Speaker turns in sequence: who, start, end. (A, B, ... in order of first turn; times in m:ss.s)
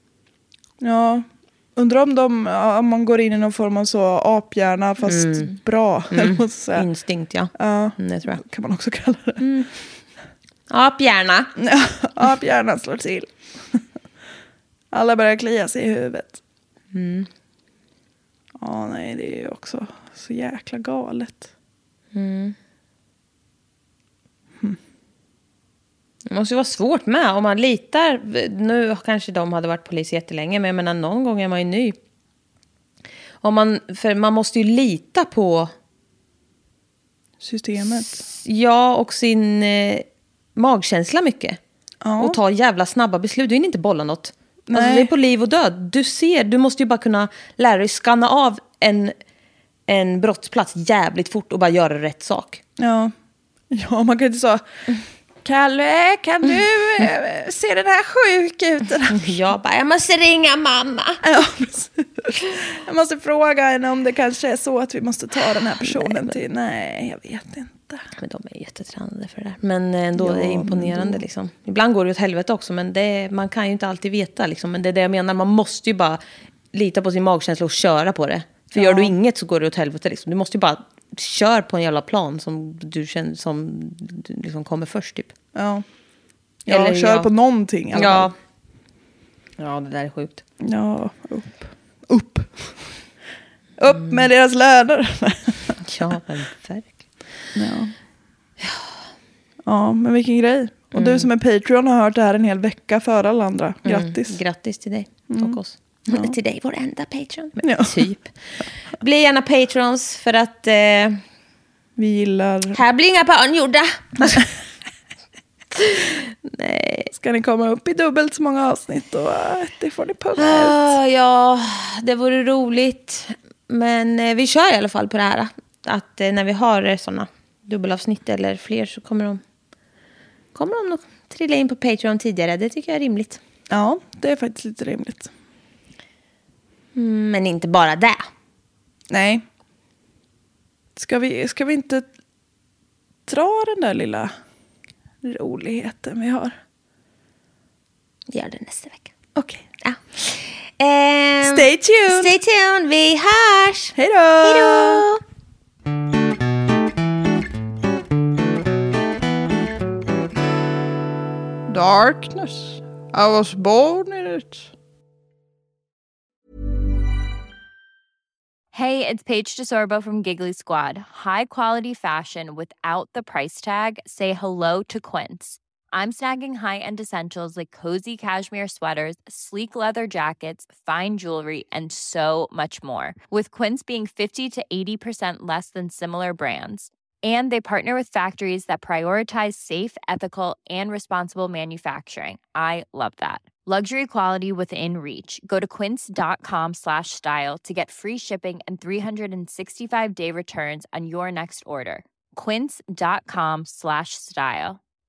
0:00.8-0:06.9 A
0:05.0-0:08.4 B
0:07.6-0:09.4 A
0:09.4-0:09.7 B
0:10.7-0:11.5 B
0:11.6-0:13.3 A
0:14.9-0:16.4 A
0:16.9-0:17.3 B
0:18.6-0:21.5 A
0:22.1-0:22.5 B
0:26.3-0:32.0 B
0:33.4-0:35.7 B
0:37.4-0:38.2 A
0:38.1-0:41.6 B
0:42.0-0:42.4 A
0:42.2-0:49.1 B
0:44.7-0:45.1 A
0:49.9-0:52.6 B
0:52.8-0:53.1 A
0:53.7-0:54.6 A
0:55.4-0:59.4 A
0:59.1-1:01.2 B
1:01.2-1:08.1 A
1:08.2-1:16.2 B
1:10.2-1:11.2 A
1:16.7-1:25.3 B
1:18.7-1:19.1 A
1:25.5-1:25.8 A
1:26.6-1:28.3 A
1:26.7-1:27.3 B
1:27.9-1:28.3 B
1:29.6-1:30.4 B
1:30.6-1:32.8 A
1:33.8-1:35.8 A
1:34.0-1:34.2 B
1:35.8-1:36.9 B
1:37.5-1:37.9 A
1:39.6-1:44.4 A
1:40.9-1:41.3 B
1:43.8-1:48.3 B
1:45.3-1:45.6 A
1:47.6-1:48.1 A
1:48.9-1:51.2 B
1:52.0-1:52.8 A
1:52.7-1:54.4 B
1:55.7-1:57.1 B
1:57.1-2:00.9 A
2:00.4-2:09.4 B
2:10.5-2:13.4 B
2:13.7-2:15.3 A
2:16.9-2:18.2 B
2:19.1-2:19.4 A
2:21.0-2:22.1 A
2:23.3-2:24.3 A
2:25.2-2:26.6 A
2:28.3-2:29.1 B
2:29.4-2:29.6 A
2:29.8-2:35.2 B
2:31.4-2:32.3 A
2:34.0-2:35.0 A
2:41.7-2:44.7 A
2:48.7-3:24.8 C